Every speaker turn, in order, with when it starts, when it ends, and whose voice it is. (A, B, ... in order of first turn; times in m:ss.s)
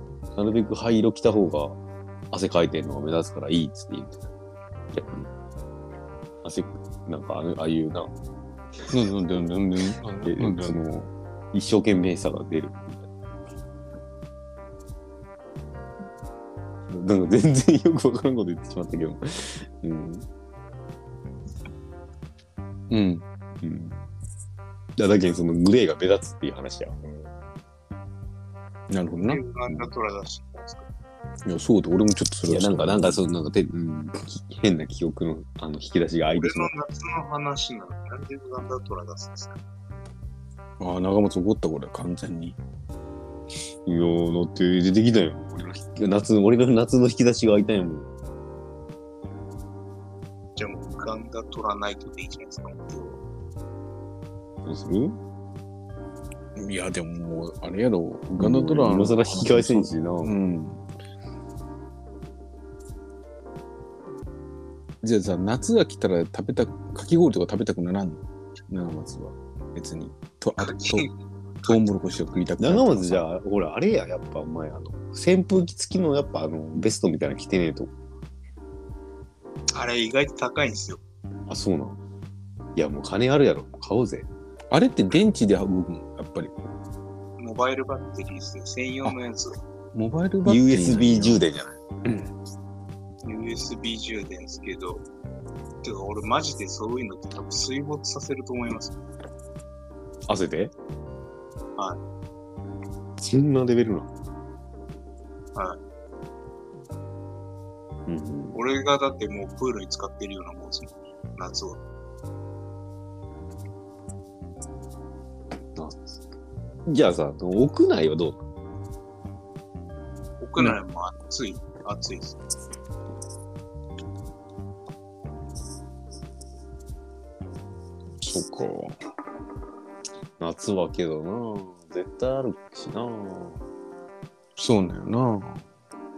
0:00.4-0:01.8 A
0:02.3-0:04.3 A
0:04.9-0:05.3 A
0:06.4-0:08.1 A
0:08.9-0:10.8 B
0:10.2-0:13.1 A
0:16.9-0:20.3 A
0:22.9-0:23.2 B
0:23.6-0:24.0 A
0:25.0-0:27.3 A
0:28.9-0:29.4 B
0:29.2-0:30.9 C
0:31.4-0:33.2 B
0:32.5-0:36.7 A
0:36.4-0:39.6 C
0:40.8-0:42.6 B
0:43.9-0:48.1 A
0:50.6-0:53.2 C
0:54.6-0:55.2 A
0:56.6-1:00.8 B
0:58.4-1:00.3 A
1:05.0-1:11.1 B
1:10.6-1:11.1 C
1:11.7-1:13.2 B
1:12.6-1:17.9 A
1:19.7-1:21.0 C
1:21.5-1:22.0 A
1:22.8-1:24.3 A
1:24.7-1:26.5 B
1:27.4-1:29.6 C
1:29.9-1:31.4 B
1:30.5-1:32.3 A
1:33.2-1:35.0 C
1:35.8-1:39.0 C
1:40.3-1:40.7 A
1:43.2-1:44.1 A
1:48.1-1:48.6 A
1:48.5-1:51.8 C
1:55.8-1:56.0 A
1:56.9-1:58.4 A
2:00.4-2:02.4 C
2:08.2-2:09.0 B
2:10.4-2:13.6 A
2:14.6-2:15.6 B